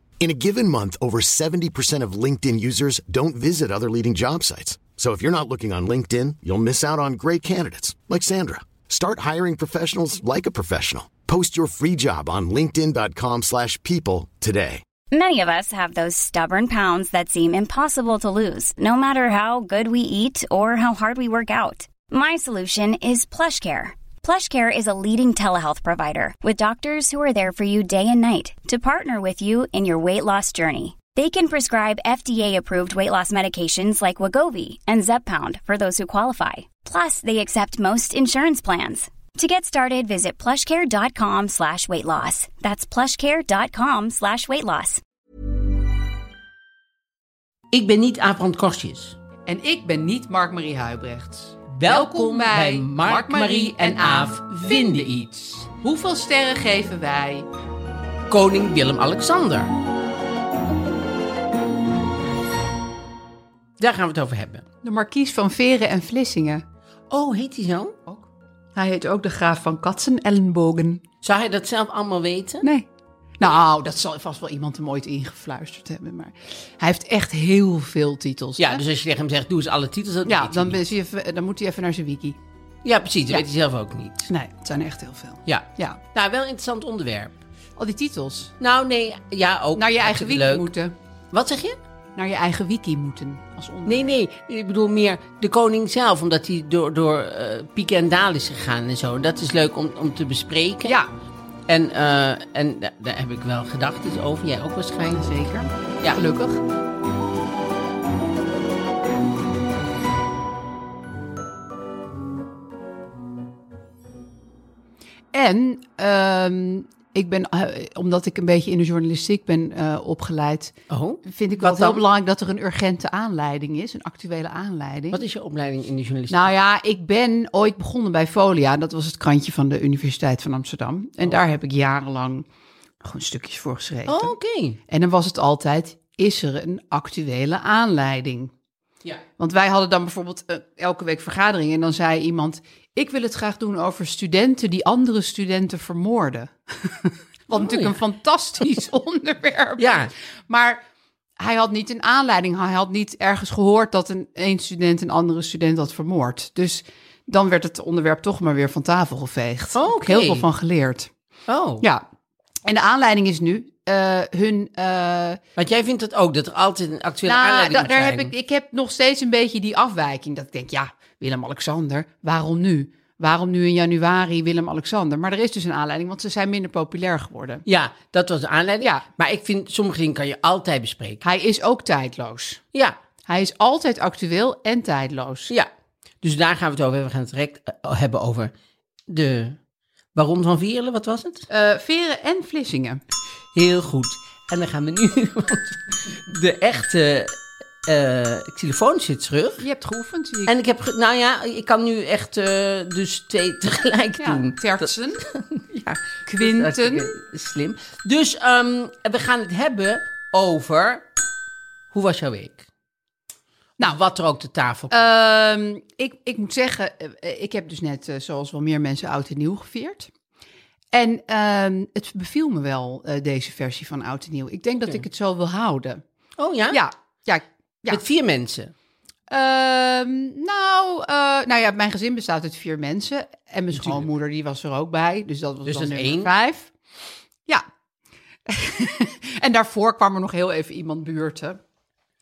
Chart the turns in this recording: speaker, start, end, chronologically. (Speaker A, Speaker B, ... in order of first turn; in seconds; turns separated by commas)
Speaker A: 0.2-14.8, Speaker B: 15.1-45.0, Speaker C: 47.7-49.2, Speaker D: 49.5-54.7, Speaker C: 51.8-55.7, Speaker D: 55.8-57.5, Speaker C: 58.3-59.7, Speaker C: 63.8-64.6, Speaker D: 64.8-66.6, Speaker C: 67.1-68.0, Speaker D: 68.1-71.0, Speaker C: 71.2-72.7, Speaker D: 72.6-72.9, Speaker D: 73.4-78.8, Speaker C: 78.6-80.8, Speaker D: 80.2-82.4, Speaker C: 82.8-84.3, Speaker D: 84.3-86.0, Speaker C: 85.5-87.3, Speaker D: 87.8-88.5, Speaker C: 88.6-90.7, Speaker D: 89.8-90.9, Speaker C: 91.3-91.8, Speaker D: 92.2-94.1, Speaker C: 93.9-101.0, Speaker D: 100.8-101.1, Speaker C: 101.7-105.3, Speaker D: 105.1-106.6, Speaker D: 115.3-125.2, Speaker C: 120.9-122.0, Speaker C: 125.1-126.5, Speaker D: 126.3-132.5, Speaker D: 133.0-134.3, Speaker C: 134.1-134.8, Speaker D: 134.9-138.5, Speaker D: 139.4-150.8, Speaker C: 147.6-148.0, Speaker C: 149.8-150.1, Speaker D: 151.4-161.1, Speaker C: 159.8-160.5, Speaker C: 161.5-161.8, Speaker D: 162.7-165.4, Speaker C: 165.6-168.3, Speaker D: 167.2-177.7, Speaker C: 177.7-181.2, Speaker D: 181.2-182.6, Speaker D: 183.3-185.5, Speaker C: 186.2-188.5, Speaker C: 189.1-189.6, Speaker C: 190.2-191.5, Speaker D: 191.5-193.0, Speaker C: 193.6-197.3, Speaker C: 197.9-199.6, Speaker D: 199.6-200.5, Speaker C: 200.5-211.1, Speaker D: 204.2-205.3, Speaker D: 206.3-207.1, Speaker C: 211.9-212.6, Speaker C: 213.8-215.1, Speaker D: 214.9-220.1, Speaker D: 220.9-226.0, Speaker C: 226.4-226.8, Speaker D: 226.7-228.0, Speaker C: 227.9-228.7, Speaker D: 229.3-236.7, Speaker C: 235.7-236.3, Speaker D: 238.5-241.6